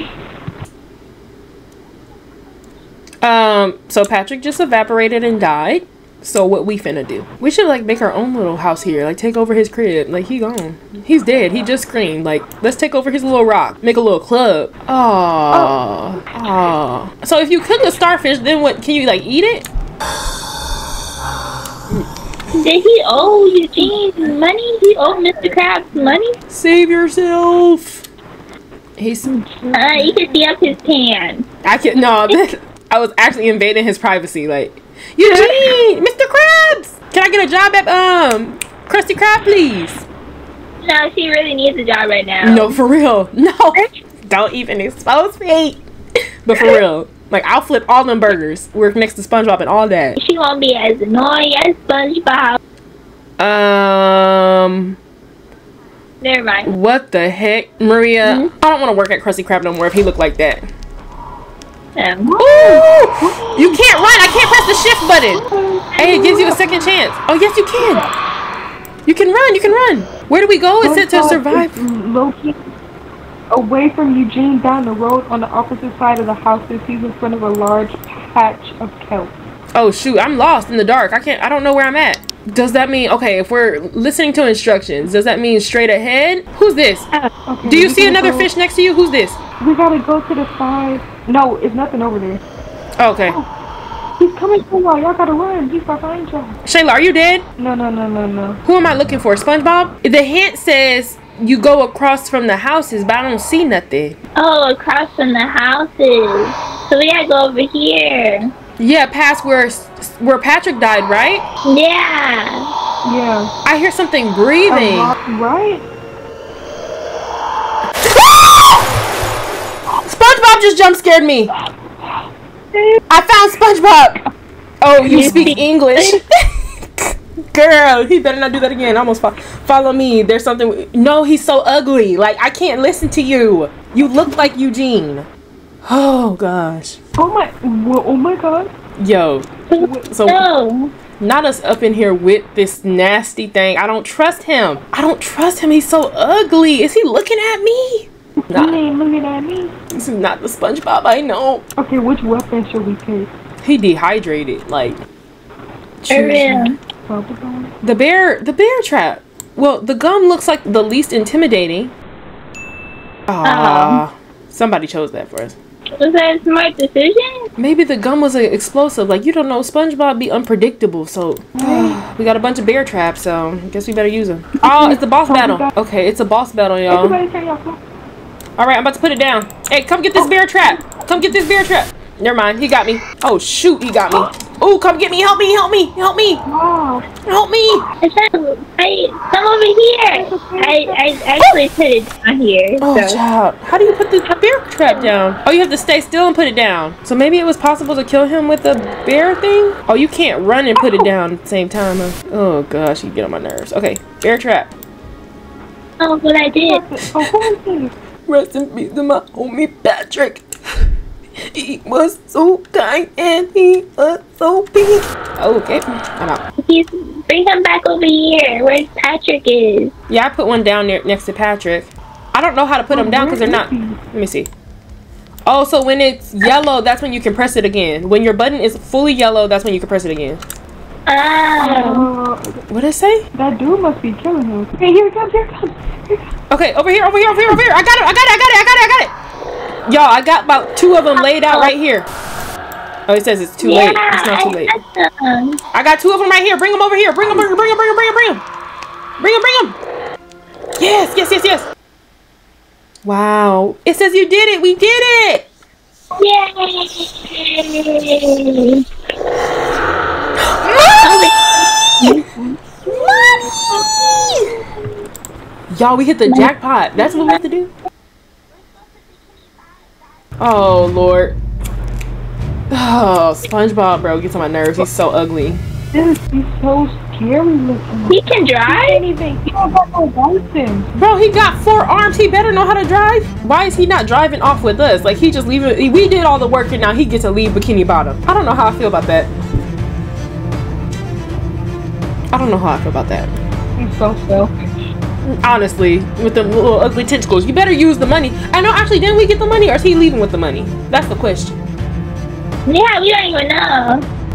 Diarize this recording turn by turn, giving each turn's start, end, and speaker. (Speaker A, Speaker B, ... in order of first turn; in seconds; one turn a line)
Speaker A: 3.2-19.7
Speaker B: 22.6-26.4
Speaker A: 26.5-28.0
Speaker A: 29.0-29.3
Speaker C: 29.3-30.4
Speaker B: 29.7-31.4
Speaker A: 31.6-40.1
Speaker B: 40.8-42.8
Speaker A: 42.4-45.8
Speaker A: 46.5-50.2
Speaker B: 46.5-46.8
Speaker B: 50.1-52.6
Speaker A: 53.4-55.0
Speaker B: 56.2-56.7
Speaker A: 56.6-60.7
Speaker B: 58.2-58.5
Speaker B: 62.0-62.3
Speaker C: 62.2-63.8
Speaker A: 62.4-65.4
Speaker C: 65.3-66.9
Speaker A: 66.0-68.0
Speaker B: 66.0-66.2
Speaker A: 69.1-71.8
Speaker C: 70.8-72.7
Speaker C: 73.5-79.3
Speaker A: 79.8-87.1
Speaker C: 87.5-88.5
Speaker A: 87.6-89.4
Speaker C: 89.6-92.4
Speaker A: 93.0-93.4
Speaker C: 94.2-96.6
Speaker A: 96.7-97.4
Speaker C: 97.6-98.6
Speaker A: 98.6-104.2
Speaker B: 104.3-108.5
Speaker A: 108.8-111.5
Speaker B: 111.7-112.7
Speaker C: 113.0-113.5
Speaker A: 113.6-115.2
Speaker C: 114.7-115.8
Speaker A: 120.0-121.5
Speaker A: 123.1-124.2
Speaker A: 124.8-126.2
Speaker C: 125.0-125.6
Speaker B: 125.1-126.2
Speaker A: 126.8-135.3
Speaker A: 135.8-137.0
Speaker C: 137.2-138.7
Speaker A: 139.0-139.5
Speaker B: 139.7-140.9
Speaker C: 139.8-140.1
Speaker A: 140.1-140.4
Speaker A: 141.2-148.8
Speaker C: 148.4-149.7
Speaker A: 149.9-151.6
Speaker C: 151.8-153.3
Speaker A: 153.6-155.0
Speaker A: 156.0-156.7
Speaker B: 156.1-156.8
Speaker C: 157.1-157.7
Speaker A: 157.8-161.9
Speaker A: 163.3-165.6
Speaker B: 163.4-164.0
Speaker B: 166.0-167.4
Speaker A: 167.6-177.2
Speaker C: 171.6-172.0
Speaker C: 174.7-175.7
Speaker C: 176.9-177.8
Speaker A: 178.6-186.4
Speaker C: 186.4-187.1
Speaker A: 187.2-187.9
Speaker B: 188.0-193.2
Speaker C: 190.1-191.1
Speaker A: 192.8-204.7
Speaker B: 194.3-195.1
Speaker C: 200.8-201.1
Speaker B: 206.0-206.8
Speaker C: 206.6-207.9
Speaker A: 208.3-210.4
Speaker A: 211.5-216.4
Speaker B: 216.6-219.9
Speaker A: 220.1-224.5
Speaker C: 222.9-224.0
Speaker A: 225.4-230.4
Speaker B: 231.1-232.1
Speaker C: 231.6-232.6
Speaker A: 232.7-233.2
Speaker C: 233.3-236.2
Speaker A: 236.5-239.1
Speaker A: 239.8-242.1
Speaker B: 241.2-241.7
Speaker A: 243.1-244.7
Speaker B: 243.6-245.6
Speaker A: 245.7-248.4
Speaker A: 249.2-249.8
Speaker A: 250.8-251.7
Speaker A: 253.0-255.4
Speaker B: 256.2-258.8
Speaker A: 260.5-261.2
Speaker B: 261.0-262.4
Speaker A: 262.9-264.5
Speaker A: 265.7-267.7
Speaker B: 266.2-267.4
Speaker A: 270.4-271.4
Speaker A: 272.7-275.6
Speaker C: 275.9-280.9
Speaker B: 278.1-279.0
Speaker A: 280.9-289.3
Speaker A: 292.3-293.3
Speaker C: 293.8-294.7
Speaker A: 295.2-301.6
Speaker B: 302.7-304.1